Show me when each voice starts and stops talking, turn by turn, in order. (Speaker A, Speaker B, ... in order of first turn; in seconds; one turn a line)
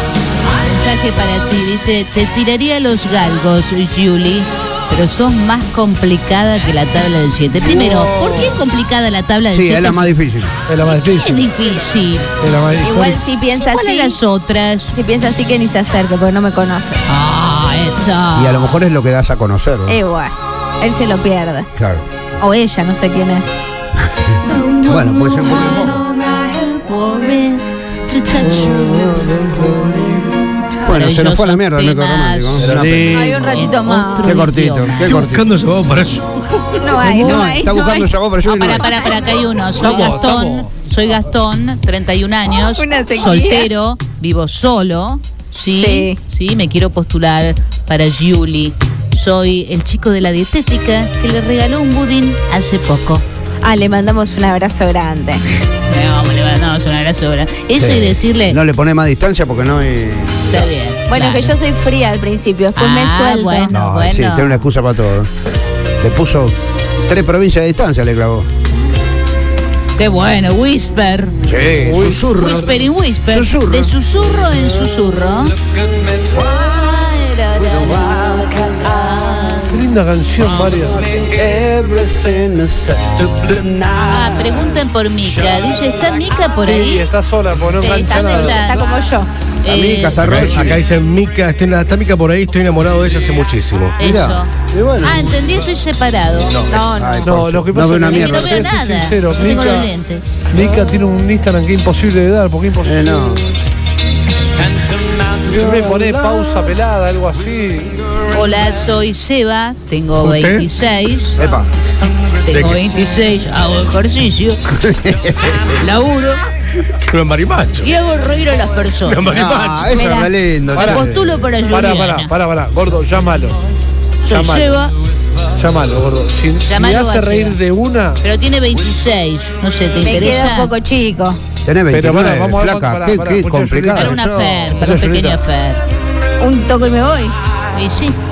Speaker A: 0.5-10.1
Speaker B: 7.6-8.6
Speaker B: 9.5-10.6
Speaker C: 10.7-11.5
Speaker A: 10.8-12.3
Speaker C: 12.4-13.2
Speaker D: 12.8-14.2
Speaker A: 13.5-14.9
Speaker D: 14.9-17.0
Speaker A: 17.1-18.8
Speaker B: 18.3-20.0
Speaker D: 19.9-21.7
Speaker B: 21.8-22.0
Speaker D: 22.4-23.6
Speaker B: 23.9-26.0
Speaker A: 24.4-29.3
Speaker B: 28.7-30.1
Speaker B: 30.7-33.5
Speaker A: 30.9-32.8
Speaker E: 32.6-33.4
Speaker D: 33.1-34.4
Speaker A: 33.4-35.2
Speaker B: 34.2-35.5
Speaker E: 35.0-36.2
Speaker D: 36.8-38.1
Speaker C: 37.0-37.5
Speaker B: 37.0-38.9
Speaker A: 38.4-53.2
Speaker D: 38.8-39.3
Speaker C: 39.8-40.7
Speaker D: 42.7-43.7
Speaker D: 45.7-46.2
Speaker D: 53.6-55.4
Speaker A: 55.9-58.6
Speaker B: 57.8-60.7
Speaker A: 60.5-61.5
Speaker D: 61.1-63.7
Speaker A: 62.8-64.6
Speaker B: 63.7-65.3
Speaker B: 66.0-68.5
Speaker A: 70.0-71.3
Speaker B: 71.5-72.6
Speaker C: 71.8-72.8
Speaker A: 72.3-75.5
Speaker B: 73.3-73.9
Speaker A: 76.3-79.8
Speaker B: 77.6-78.9
Speaker C: 79.6-81.2
Speaker B: 81.1-84.7
Speaker A: 84.1-87.1
Speaker C: 86.6-88.8
Speaker D: 87.8-89.3
Speaker A: 88.1-88.8
Speaker A: 89.6-90.2
Speaker B: 89.6-90.8
Speaker E: 90.2-94.0
Speaker B: 94.0-95.5
Speaker A: 94.0-96.5
Speaker E: 96.5-96.7
Speaker D: 96.7-97.4
Speaker B: 96.7-98.7
Speaker C: 97.2-99.9
Speaker A: 98.0-100.2
Speaker C: 100.5-103.0
Speaker B: 102.8-103.5
Speaker B: 105.4-106.3
Speaker C: 105.4-108.0
Speaker A: 108.3-111.4
Speaker E: 110.2-110.7
Speaker B: 111.4-111.7
Speaker A: 112.4-114.6
Speaker E: 112.5-112.8
Speaker B: 114.7-115.8
Speaker A: 115.8-116.4
Speaker E: 117.0-117.9
Speaker A: 117.8-119.3
Speaker E: 119.0-119.9
Speaker B: 119.3-121.1
Speaker A: 119.9-122.3
Speaker C: 120.7-123.6
Speaker A: 124.2-124.9
Speaker C: 124.3-124.7
Speaker C: 125.6-128.2
Speaker A: 126.7-127.6
Speaker A: 128.2-130.7
Speaker D: 130.0-131.4
Speaker B: 131.7-134.8
Speaker C: 131.9-134.2
Speaker A: 133.9-135.8
Speaker C: 134.8-135.4
Speaker D: 136.4-137.3
Speaker A: 137.7-138.2